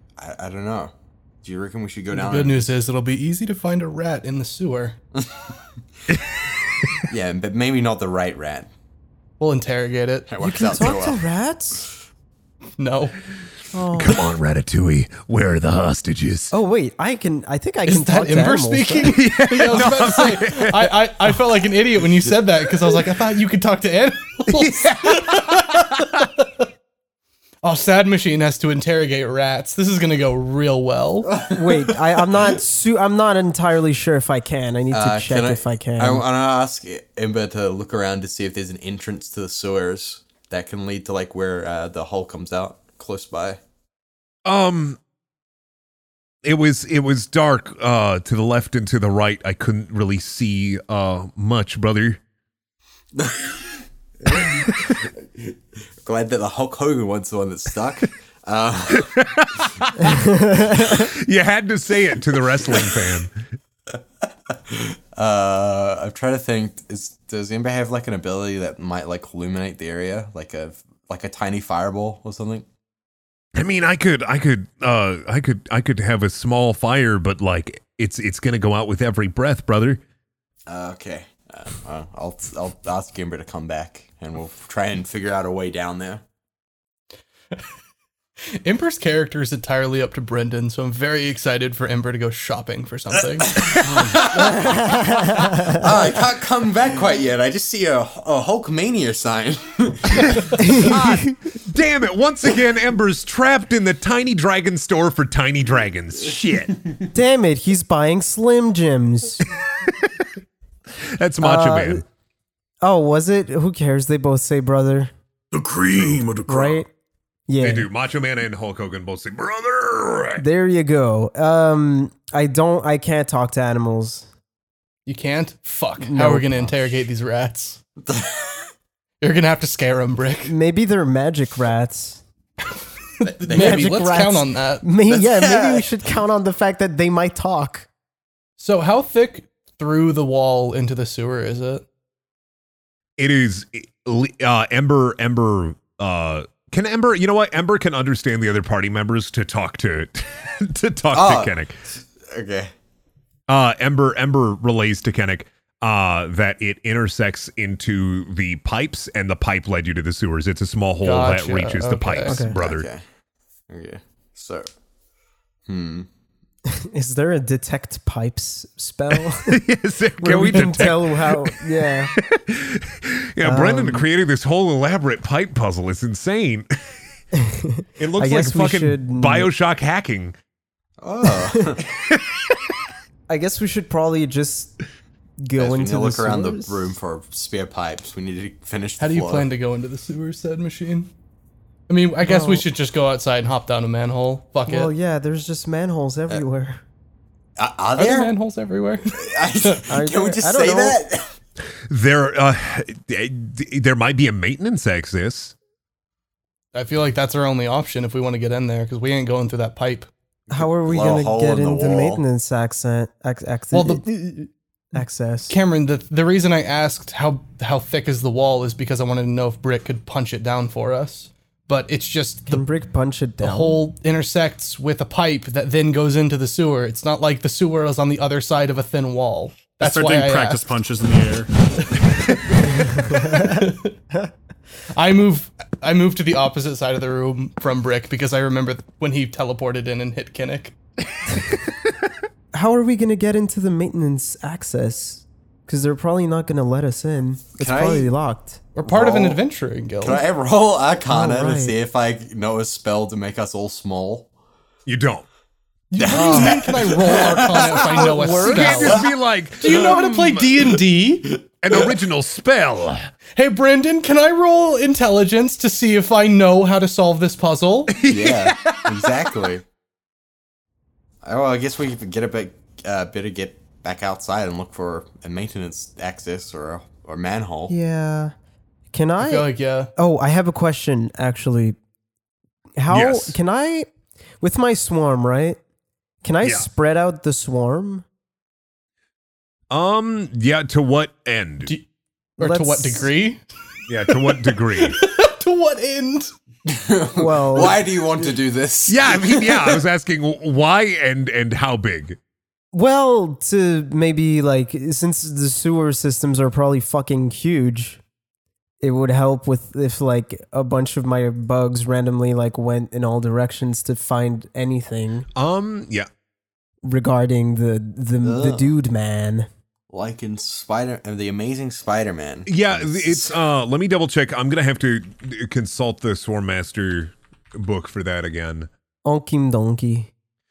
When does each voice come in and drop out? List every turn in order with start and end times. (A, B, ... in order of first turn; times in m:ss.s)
0:00.2-0:02.7 A
0:02.1-0:05.0 B
0:05.1-0:05.5 A
0:07.1-0:08.7 A
0:09.4-0:10.3 B
0:10.3-0:11.2 A
0:10.4-0:11.9 C
0:12.8-0:13.2 B
0:13.7-0:14.2 C
0:13.9-0:16.5 D
0:16.5-0:19.2 C
0:17.9-0:26.5 B
0:19.1-0:21.3 D
0:24.5-0:26.2 D
0:27.6-0:31.3 B
0:31.2-0:32.4 A
0:31.5-0:36.2 C
0:34.9-0:43.6 A
0:44.4-0:45.0 D
0:46.4-0:52.2 D
0:53.1-0:53.6 A
0:54.2-0:55.5 A
0:56.0-0:59.2 A
0:58.9-1:03.3 D
1:00.0-1:01.0 C
1:02.7-1:03.0 A
1:04.5-1:12.6 A
1:13.5-1:20.0 D
1:20.7-1:26.2 A
1:28.6-1:33.6 B
1:33.4-1:40.7 A
1:34.4-1:35.8 C
1:40.1-1:46.8 D
1:40.6-1:41.3 C
1:47.1-1:49.4 C
1:49.8-1:50.2 D
1:51.0-1:52.0 D
1:51.4-1:52.0 C
1:52.8-1:55.1 C
1:55.5-1:56.8 E
1:56.4-1:56.9 C
1:57.5-1:57.9 C
1:57.6-2:00.4 D
2:00.4-2:04.3 C
2:05.0-2:07.8 B
2:06.0-2:06.7 C
2:08.0-2:08.6 A
2:09.2-2:10.5 B
2:10.4-2:12.2 C
2:13.2-2:14.8 B
2:13.4-2:14.2 A
2:13.5-2:17.9 C
2:15.1-2:15.9 A
2:18.6-2:21.8 B
2:23.2-2:31.8 D
2:31.1-2:32.7 A
2:33.5-2:42.9 D
2:41.0-2:42.4 B
2:42.2-2:42.6 C
2:42.6-2:43.0 A
2:43.7-2:44.7 A
2:45.6-2:46.1 A
2:46.7-2:49.6 C
2:49.5-2:51.6 D
2:50.2-2:52.1 C
2:52.2-2:56.7 D
2:53.4-2:54.0 C
2:57.3-2:59.5 C
2:58.0-3:00.3 D
3:01.0-3:01.8 A
3:01.9-3:02.6 D
3:03.3-3:04.8 C
3:05.4-3:06.8 C
3:05.6-3:09.5 A
3:09.0-3:11.1 B
3:11.9-3:14.9 B
3:12.2-3:12.6 C
3:14.6-3:16.8 C
3:17.6-3:18.3 A
3:18.0-3:19.8 B
3:19.1-3:21.2 A
3:19.9-3:21.0 C
3:21.9-3:25.5 D
3:26.7-3:30.1 B
3:30.5-3:32.2 A
3:30.5-3:35.6 C
3:33.7-3:34.1 B
3:35.5-3:42.6 B
3:42.5-3:43.8 C
3:43.4-3:50.7 B
3:49.8-3:51.5 E
3:52.2-3:53.9 B
3:52.8-3:53.7 C
3:54.9-4:00.7 B
4:02.5-4:08.6 C
4:07.6-4:08.1 A
4:08.7-4:10.2 B
4:08.8-4:09.4 A
4:10.0-4:14.3 A
4:11.1-4:11.7 C
4:14.8-4:15.2 D
4:15.9-4:19.0 B
4:16.0-4:19.1 A
4:16.1-4:16.6 C
4:17.9-4:20.5 D
4:19.6-4:21.3 B
4:19.6-4:20.0 A
4:21.2-4:21.9 A
4:21.6-4:23.0 D
4:23.4-4:28.0 B
4:27.9-4:29.0 D
4:28.0-4:29.6 A
4:31.2-4:37.7 A
4:37.7-4:38.3 C
4:38.9-4:41.8 C
4:39.2-4:39.9 B
4:42.8-4:43.9 C
4:42.9-4:43.3 D
4:44.4-4:45.6 C
4:46.2-4:48.0 C
4:49.7-4:51.7 D
4:52.4-4:53.1 C
4:52.4-4:53.4 B
4:53.9-4:55.0 D
4:54.1-4:56.3 B
4:56.6-4:59.8 A
4:57.2-4:57.8 C
4:58.9-5:02.2 D
5:02.7-5:08.0 C
5:08.8-5:15.2 C
5:15.3-5:16.1 D
5:16.8-5:19.5 C
5:18.2-5:18.7 A
5:19.9-5:23.3 A
5:22.5-5:28.7 D
5:29.0-5:30.1 C